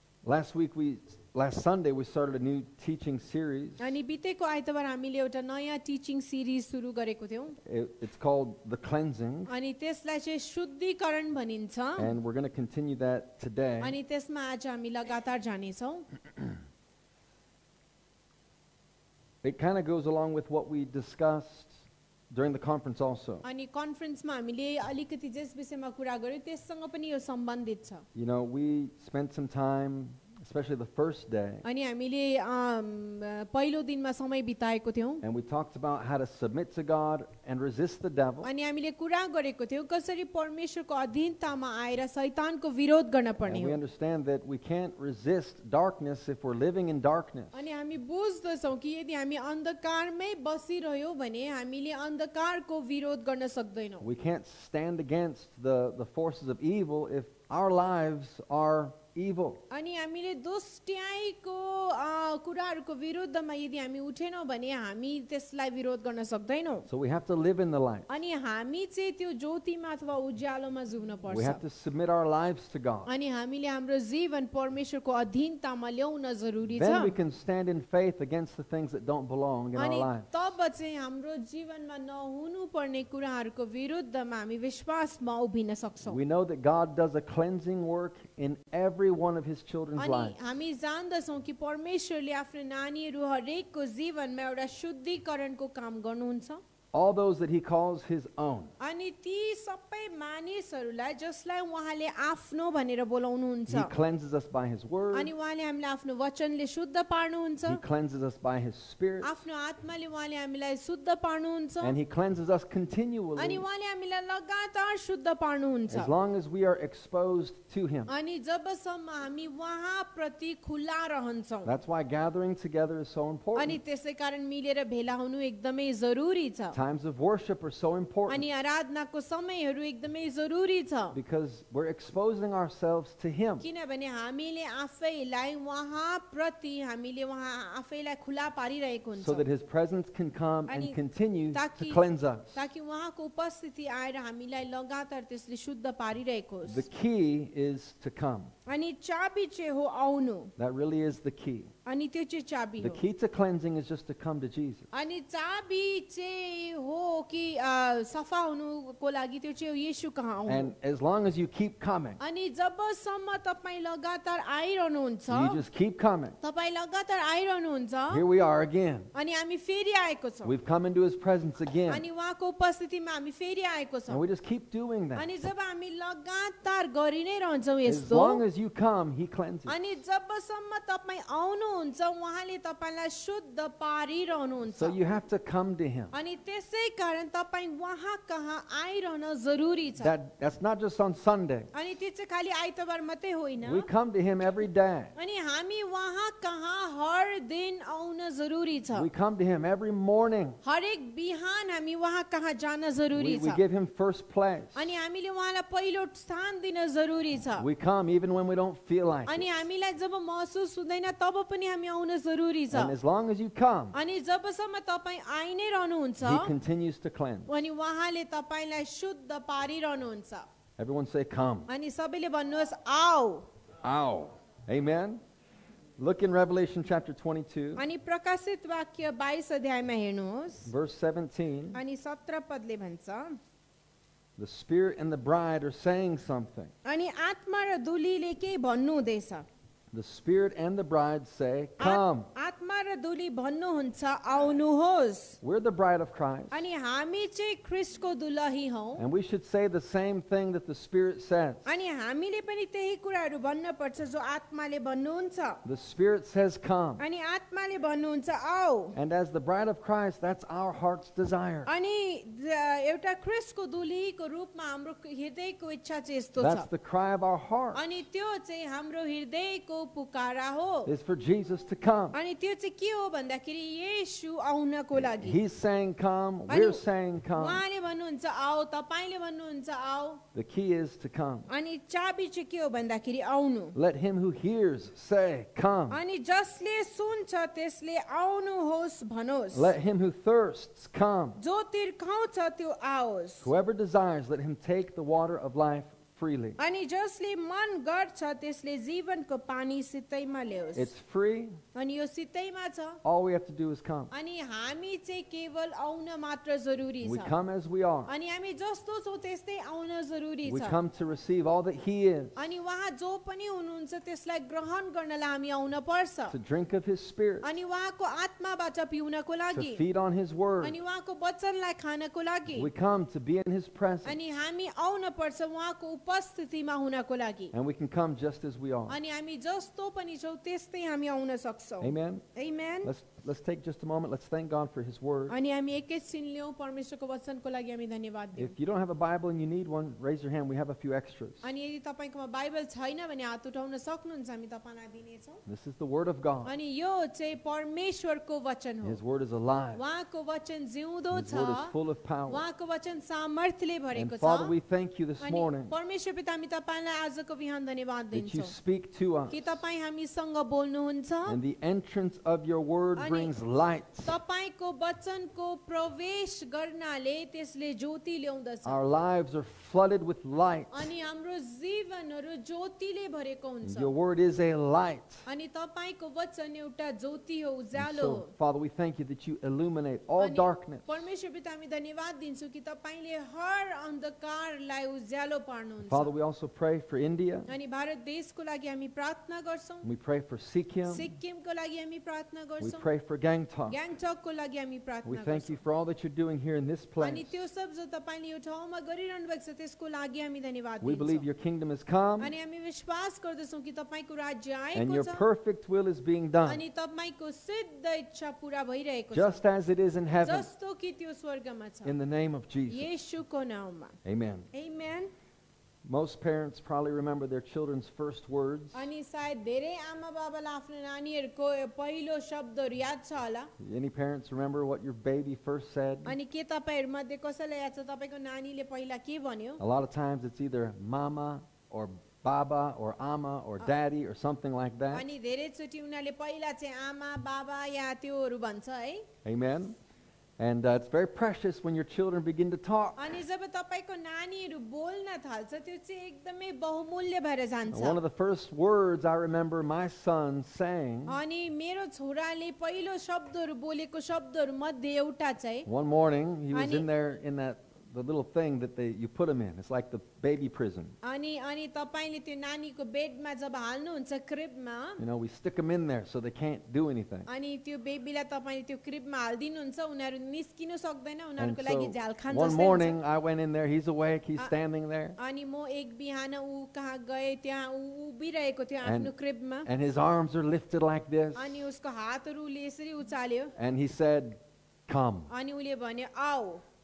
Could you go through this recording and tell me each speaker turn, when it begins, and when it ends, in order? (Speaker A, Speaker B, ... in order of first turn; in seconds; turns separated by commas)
Speaker A: 0.2-3.9, Speaker B: 3.8-7.6, Speaker A: 7.6-9.5, Speaker B: 9.5-12.1, Speaker A: 12.0-13.9, Speaker B: 13.8-16.1, Speaker A: 19.4-21.8, Speaker A: 22.3-23.4, Speaker B: 23.4-28.0, Speaker A: 28.1-31.6, Speaker B: 31.6-35.2, Speaker A: 35.2-38.5, Speaker B: 38.4-43.8, Speaker A: 43.5-47.6, Speaker B: 47.5-54.1, Speaker A: 54.0-59.6, Speaker B: 59.7-66.9, Speaker A: 66.9-68.1, Speaker B: 68.1-71.6, Speaker A: 71.3-73.1, Speaker B: 73.0-77.2, Speaker A: 76.7-80.3, Speaker B: 79.7-86.2, Speaker A: 86.0-90.4, Speaker B: 90.0-96.6, Speaker A: 96.9-98.7, Speaker B: 98.8-103.9, Speaker A: 103.7-105.3, Speaker B: 105.1-107.8, Speaker A: 107.7-109.4, Speaker B: 109.2-111.9, Speaker A: 111.8-113.6, Speaker B: 113.4-116.1, Speaker A: 115.9-118.1, Speaker B: 118.1-121.7, Speaker A: 121.6-123.8, Speaker B: 123.5-126.8, Speaker A: 126.7-128.4, Speaker B: 128.3-131.2, Speaker A: 131.1-133.6, Speaker B: 133.6-139.4, Speaker A: 139.2-142.6, Speaker B: 140.7-141.0, Speaker B: 141.5-142.0, Speaker B: 142.5-146.8, Speaker A: 146.6-148.5, Speaker B: 148.7-150.5, Speaker A: 150.6-151.7, Speaker B: 151.8-153.0, Speaker A: 152.8-154.9, Speaker B: 154.9-160.7, Speaker A: 160.4-162.2, Speaker B: 162.2-165.6, Speaker A: 165.3-166.4, Speaker B: 166.4-168.2, Speaker A: 168.1-169.1, Speaker B: 169.1-170.5, Speaker A: 170.4-172.0, Speaker B: 171.9-174.2, Speaker A: 174.1-175.3, Speaker B: 175.1-178.4, Speaker A: 177.8-179.8, Speaker B: 179.7-185.0, Speaker A: 184.7-186.1, Speaker B: 186.1-190.1, Speaker A: 190.0-191.7, Speaker B: 191.7-193.9, Speaker A: 193.6-195.1, Speaker B: 195.2-199.1, Speaker A: 198.9-200.6, Speaker B: 200.6-203.6, Speaker A: 203.1-204.9, Speaker B: 204.7-207.7, Speaker A: 207.6-209.5, Speaker B: 209.2-212.9, Speaker A: 212.7-213.9, Speaker B: 213.9-216.5, Speaker A: 216.2-217.6, Speaker B: 217.5-220.5, Speaker A: 220.8-221.7, Speaker B: 221.7-223.5, Speaker A: 223.8-225.2, Speaker A: 226.0-227.8, Speaker B: 227.7-230.7, Speaker A: 230.7-231.8, Speaker B: 231.7-233.4, Speaker A: 234.4-236.7, Speaker B: 236.8-239.4, Speaker A: 239.9-242.3, Speaker B: 241.8-245.4, Speaker A: 245.4-246.7, Speaker B: 246.5-249.0, Speaker A: 249.0-251.7, Speaker B: 251.7-255.6, Speaker A: 255.6-257.0, Speaker B: 257.0-258.9, Speaker A: 258.9-261.7, Speaker B: 261.6-266.7, Speaker A: 266.4-267.8, Speaker B: 267.7-270.9, Speaker A: 270.8-272.1, Speaker B: 272.1-275.4, Speaker A: 275.0-277.6, Speaker B: 276.5-280.2, Speaker A: 280.3-281.5, Speaker B: 281.5-283.8, Speaker A: 283.7-286.0, Speaker B: 285.9-289.7, Speaker A: 289.5-291.4, Speaker B: 291.4-293.5, Speaker A: 293.4-296.6, Speaker B: 296.6-300.9, Speaker A: 300.7-301.6, Speaker B: 301.7-303.0, Speaker A: 303.0-304.1, Speaker B: 304.1-307.3, Speaker A: 307.0-308.1, Speaker B: 308.1-310.8, Speaker A: 310.4-312.4, Speaker B: 312.4-316.3, Speaker A: 316.3-317.5, Speaker B: 317.4-319.8, Speaker A: 319.5-320.8, Speaker B: 320.6-322.7, Speaker A: 322.5-324.2, Speaker B: 324.0-327.5, Speaker A: 327.5-329.0, Speaker B: 328.9-332.9, Speaker A: 331.8-332.2, Speaker A: 332.8-335.4, Speaker B: 335.3-338.5, Speaker A: 338.4-341.5, Speaker B: 341.4-345.4, Speaker A: 345.4-346.5, Speaker B: 346.4-349.0, Speaker A: 348.8-349.8, Speaker B: 349.7-351.7, Speaker A: 351.1-352.4, Speaker B: 352.3-354.5, Speaker A: 353.9-355.7, Speaker B: 355.2-358.5, Speaker A: 358.1-359.6, Speaker B: 359.3-361.4, Speaker A: 361.2-364.1, Speaker B: 363.0-363.3, Speaker B: 364.0-368.8, Speaker A: 368.6-370.9, Speaker B: 370.7-373.9, Speaker A: 373.6-375.2, Speaker B: 375.2-378.3, Speaker A: 377.8-381.0, Speaker B: 380.2-386.1, Speaker A: 385.9-387.5, Speaker B: 387.5-389.8, Speaker A: 389.8-391.1, Speaker B: 390.9-392.8, Speaker A: 392.6-393.8, Speaker B: 393.7-395.6, Speaker A: 395.0-397.4, Speaker B: 397.0-401.2, Speaker A: 400.8-402.3, Speaker B: 402.2-405.2, Speaker A: 404.7-406.6, Speaker B: 406.4-409.4, Speaker A: 409.1-410.5, Speaker B: 410.2-411.9, Speaker A: 411.8-412.9, Speaker B: 412.7-414.0, Speaker A: 414.0-414.5, Speaker B: 414.5-415.1, Speaker A: 415.9-418.9, Speaker B: 418.7-423.5, Speaker A: 423.6-426.1, Speaker B: 426.1-429.6, Speaker A: 429.6-435.1, Speaker B: 434.9-439.1, Speaker A: 439.2-439.8, Speaker A: 440.4-443.1, Speaker B: 443.0-448.0, Speaker A: 447.7-451.2, Speaker B: 451.1-455.7, Speaker A: 455.6-460.9, Speaker B: 456.5-456.9, Speaker B: 461.0-465.0, Speaker A: 465.0-467.3, Speaker B: 467.3-473.0, Speaker A: 471.4-475.2, Speaker B: 475.2-479.7, Speaker A: 478.8-479.1, Speaker A: 479.6-481.6, Speaker B: 481.4-483.5, Speaker A: 483.6-485.3, Speaker B: 485.3-486.6